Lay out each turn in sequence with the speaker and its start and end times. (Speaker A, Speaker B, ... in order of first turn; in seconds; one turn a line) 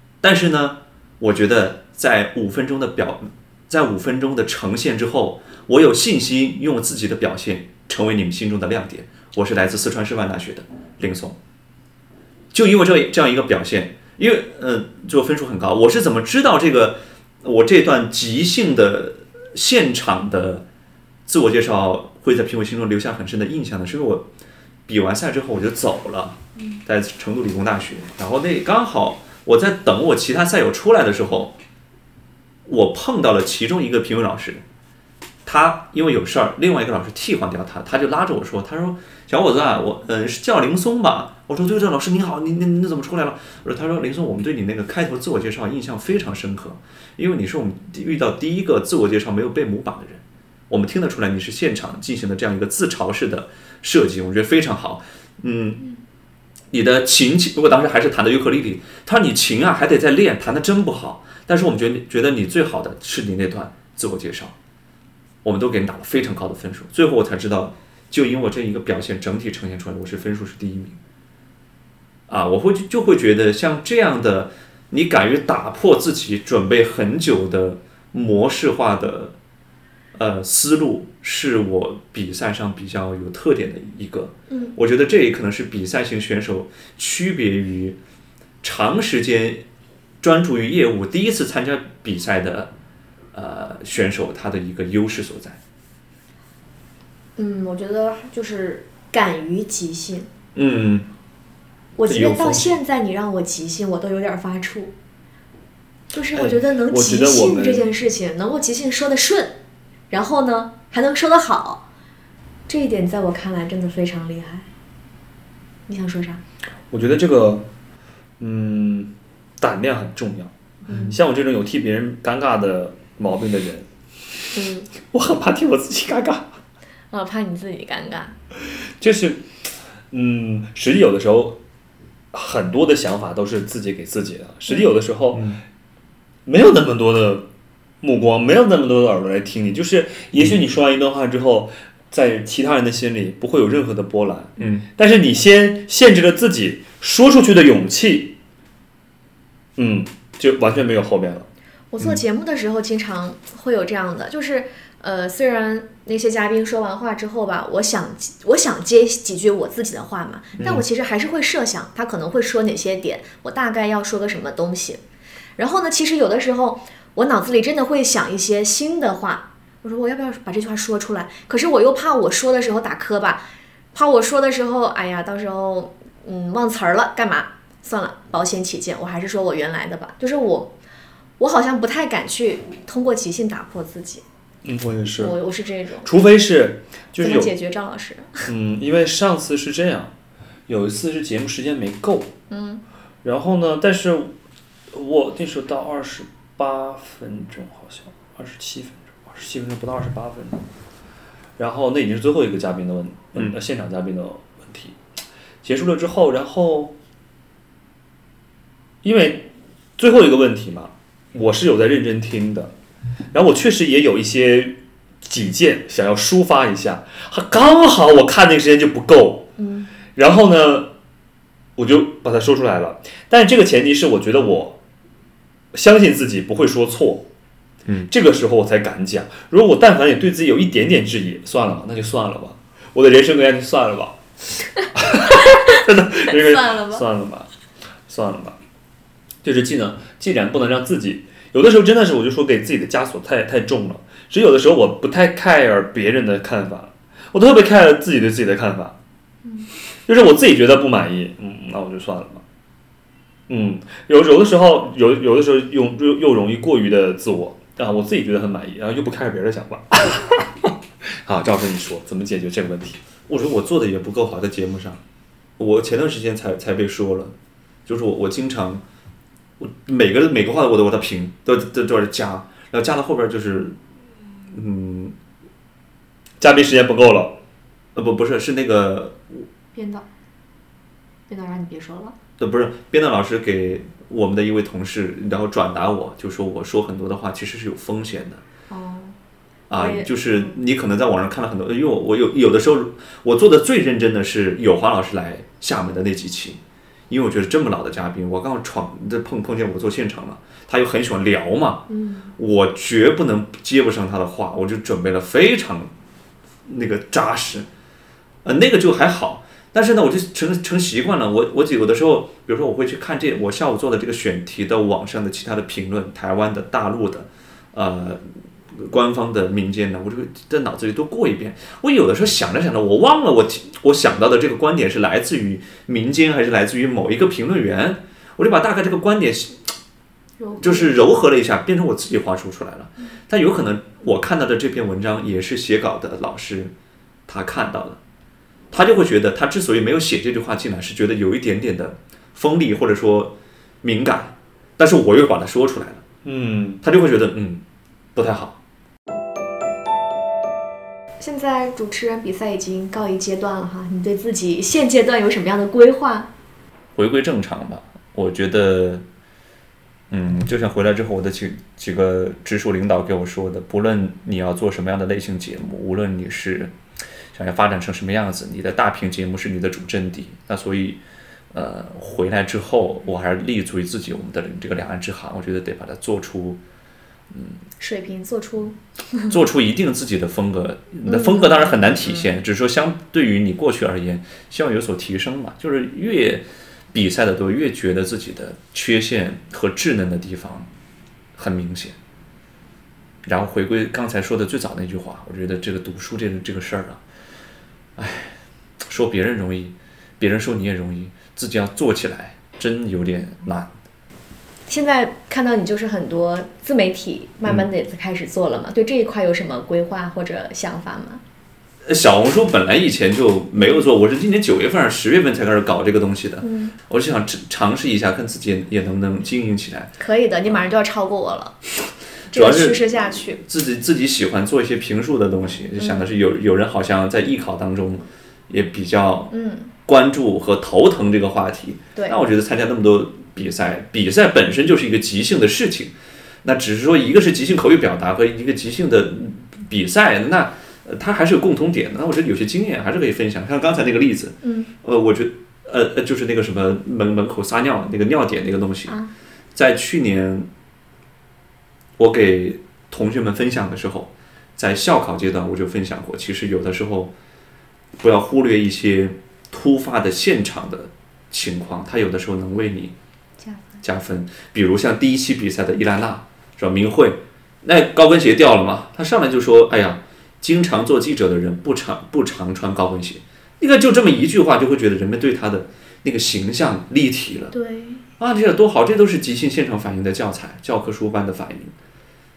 Speaker A: 0.2-11.4
Speaker A: 12.5-20.6
Speaker A: 21.3-24.3
Speaker A: 24.9-31.5
Speaker A: 32.6-34.6
Speaker A: 35.4-55.8
Speaker A: 56.7-64.5
Speaker A: 65.4-71.0
Speaker A: 72.3-79.3
Speaker A: 80.1-88.0
Speaker B: 84.5-84.8
Speaker A: 88.6-89.6
Speaker A: 90.2-92.7
Speaker A: 93.3-95.6
Speaker B: 97.3-100.3
Speaker A: 100.5-101.1
Speaker B: 102.0-104.9
Speaker A: 102.1-102.7
Speaker B: 106.1-109.6
Speaker C: 106.3-107.9
Speaker B: 110.1-111.8
Speaker B: 112.7-114.7
Speaker B: 115.9-116.4
Speaker C: 116.9-117.7
Speaker C: 118.4-120.5
Speaker B: 120.9-121.2
Speaker C: 121.1-123.9
Speaker B: 124.5-124.9
Speaker C: 125.0-126.6
Speaker B: 127.1-128.3
Speaker C: 129.0-131.6
Speaker C: 132.3-135.6
Speaker A: 135.3-135.6
Speaker C: 136.4-137.5
Speaker C: 138.0-148.4
Speaker A: 144.6-144.8
Speaker C: 149.8-151.5
Speaker B: 151.9-165.0
Speaker A: 160.6-160.8
Speaker B: 165.6-180.7
Speaker B: 181.4-184.2
Speaker C: 184.6-185.4
Speaker B: 185.2-186.1
Speaker C: 186.0-187.5
Speaker B: 187.2-188.5
Speaker C: 188.5-190.1
Speaker C: 190.7-192.3
Speaker B: 192.5-192.8
Speaker C: 193.2-194.3
Speaker C: 194.9-200.7
Speaker C: 201.6-204.9
Speaker C: 205.6-206.9
Speaker C: 209.0-212.7
Speaker C: 213.3-219.5
Speaker B: 219.6-219.9
Speaker C: 220.1-220.9
Speaker C: 221.8-224.8
Speaker C: 225.7-227.3
Speaker C: 228.1-234.2
Speaker C: 234.9-237.5
Speaker B: 236.3-237.0
Speaker C: 238.1-238.6
Speaker C: 239.4-248.9
Speaker C: 250.1-252.4
Speaker C: 253.5-260.7
Speaker C: 261.2-263.0
Speaker A: 263.3-265.0
Speaker A: 265.6-267.3
Speaker A: 267.9-268.8
Speaker A: 269.6-273.8
Speaker A: 274.5-275.1
Speaker C: 276.4-277.4
Speaker A: 277.9-279.4
Speaker B: 279.7-280.1
Speaker B: 281.3-282.1
Speaker A: 282.4-288.4
Speaker B: 288.7-289.1
Speaker A: 289.7-301.8
Speaker B: 289.7-290.6
Speaker B: 301.9-302.3
Speaker A: 302.4-305.9
Speaker A: 306.6-307.7
Speaker A: 308.4-329.7
Speaker B: 330.4-331.1
Speaker A: 330.6-336.7
Speaker A: 337.3-338.0
Speaker A: 338.7-346.0
Speaker C: 346.2-346.8
Speaker A: 346.8-347.6
Speaker A: 348.1-348.6
Speaker B: 351.2-356.3
Speaker A: 356.9-359.0
Speaker A: 360.1-366.7
Speaker A: 367.3-371.0
Speaker A: 371.5-376.6
Speaker A: 377.3-377.6
Speaker B: 377.8-379.3
Speaker A: 379.3-390.7
Speaker B: 381.0-382.3
Speaker A: 391.4-392.0
Speaker A: 393.2-397.0
Speaker A: 398.0-403.7
Speaker B: 404.7-411.2
Speaker A: 411.8-419.9
Speaker B: 416.4-416.7
Speaker B: 420.0-421.6
Speaker A: 422.3-429.3
Speaker B: 422.3-423.4
Speaker B: 425.8-426.1
Speaker B: 429.3-429.7
Speaker A: 429.9-449.0
Speaker B: 444.4-444.7
Speaker A: 449.5-450.5
Speaker A: 452.0-457.1
Speaker A: 458.0-462.9
Speaker B: 463.4-463.8
Speaker A: 463.8-477.5
Speaker B: 477.5-478.0
Speaker A: 478.2-481.7